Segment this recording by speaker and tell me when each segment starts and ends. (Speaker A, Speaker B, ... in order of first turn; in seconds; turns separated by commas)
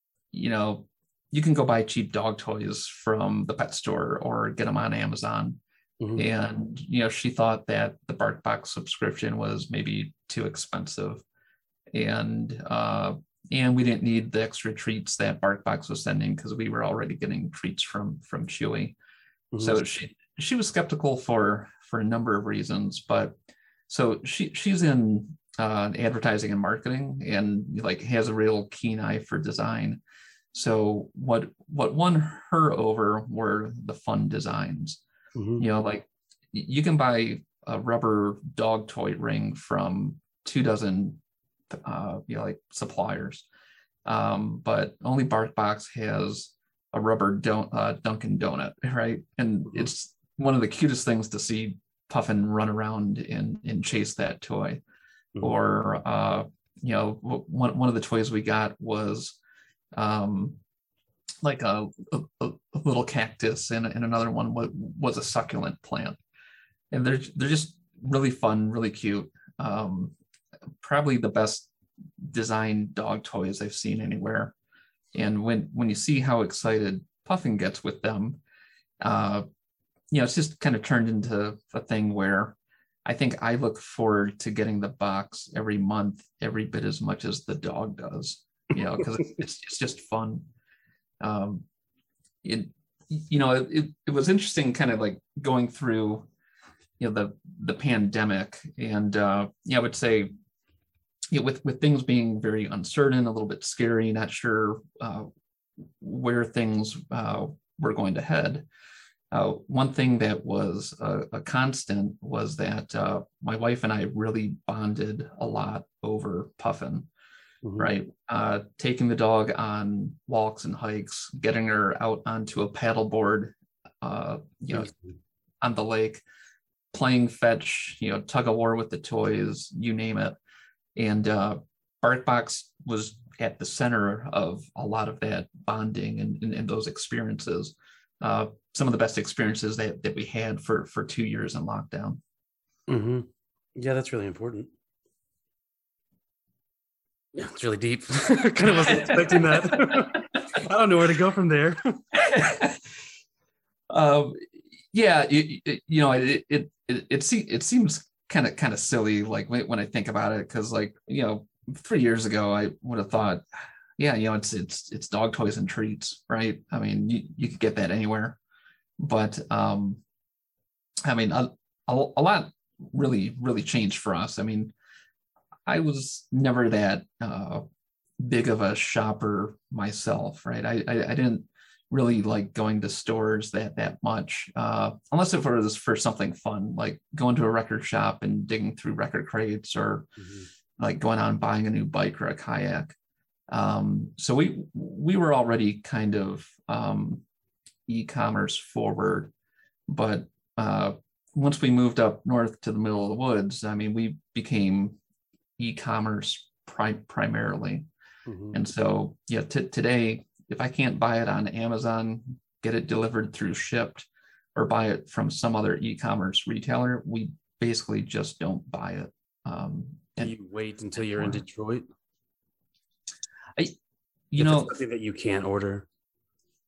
Speaker A: 0.3-5.6, Speaker B: 6.0-6.2, Speaker A: 6.2-11.2, Speaker A: 11.9-19.0, Speaker B: 19.5-19.8, Speaker A: 19.6-23.3, Speaker A: 23.9-30.0, Speaker A: 30.5-35.0, Speaker B: 35.4-35.6, Speaker A: 35.6-41.2, Speaker A: 41.7-43.5, Speaker A: 44.0-54.8, Speaker A: 55.4-59.4, Speaker A: 59.9-60.6, Speaker A: 61.4-66.2, Speaker A: 66.9-70.1, Speaker A: 70.8-71.7, Speaker A: 72.2-74.5, Speaker A: 75.1-78.4, Speaker A: 79.0-79.4, Speaker A: 80.1-90.5, Speaker A: 91.2-91.6, Speaker A: 92.4-96.3, Speaker A: 97.0-100.3, Speaker A: 101.3-105.3, Speaker A: 105.8-108.7, Speaker A: 109.3-117.1, Speaker B: 117.6-117.9, Speaker A: 117.8-124.9, Speaker A: 125.6-126.2, Speaker A: 126.9-130.4, Speaker A: 130.9-142.2, Speaker B: 142.9-144.7, Speaker B: 147.3-152.0, Speaker A: 148.9-150.0, Speaker A: 152.1-152.9, Speaker A: 153.9-163.4, Speaker A: 164.0-168.4, Speaker A: 169.0-170.0, Speaker A: 171.0-174.7, Speaker A: 175.7-177.6, Speaker A: 178.2-190.1, Speaker B: 190.2-190.5, Speaker A: 190.8-192.9, Speaker A: 193.5-197.2, Speaker A: 197.9-199.3, Speaker A: 199.9-205.0, Speaker A: 205.6-207.9, Speaker B: 208.3-208.6, Speaker A: 208.5-220.3, Speaker B: 220.2-221.8, Speaker A: 221.0-221.4, Speaker A: 224.3-224.8, Speaker B: 224.4-225.8